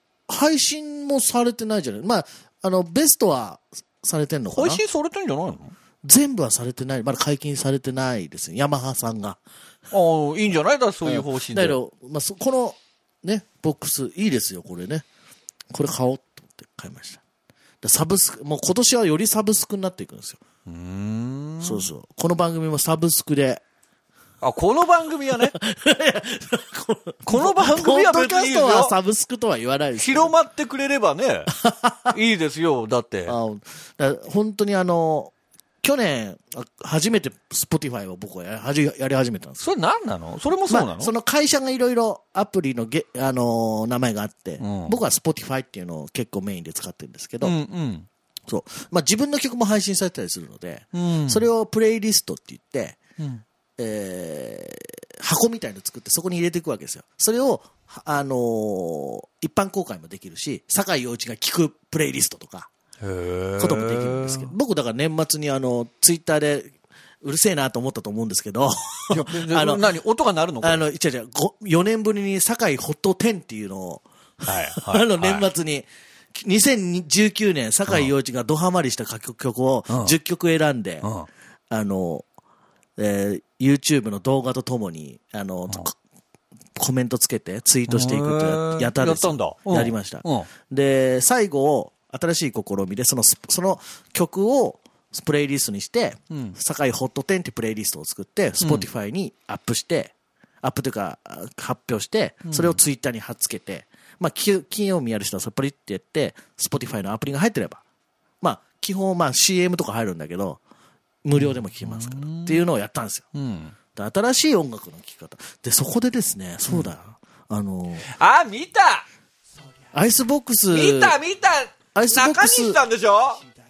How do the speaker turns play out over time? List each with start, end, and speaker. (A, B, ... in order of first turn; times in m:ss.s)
0:00.3-0:04.8 A
0:04.5-0:05.7 B
0:06.0-0:09.4 A
0:09.9-0:11.8 B
0:11.1-0:15.0 A
0:15.7-0:17.2 A
0:17.8-0:20.4 A
0:20.7-0:21.9 B
0:21.6-0:23.6 A
0:24.4-0:25.5 B
0:25.4-0:30.3 A
0:27.3-0:28.9 B
0:30.0-0:31.5 B
0:31.6-0:32.1 A
0:32.1-0:33.3 B
0:33.3-0:39.6 A
0:39.6-0:41.1 B
0:40.7-0:47.5 A
0:44.6-0:45.0 B
0:47.4-0:48.1 B
0:48.5-0:53.0 A
0:50.9-0:51.4 B
0:53.8-1:02.7 A
1:03.0-1:04.5 B
1:03.6-1:06.7 A
1:07.2-1:09.8 A
1:09.1-1:10.8 B
1:10.6-1:21.1 A
1:14.4-1:15.5 B
1:19.9-1:20.1 B
1:21.7-1:22.3 A
1:23.0-1:26.0 A
1:26.8-1:47.8 A
1:27.9-1:30.5 B
1:36.3-1:36.6 B
1:38.6-1:38.9 B
1:42.4-1:42.8 B
1:48.4-1:50.6 A
1:51.2-1:53.2 A
1:51.3-1:52.6 B
1:53.3-1:53.7 B
1:53.9-1:58.1 A
1:58.0-1:59.1 B
1:59.9-2:01.2 A
2:00.7-2:03.4 B
2:01.9-2:02.8 A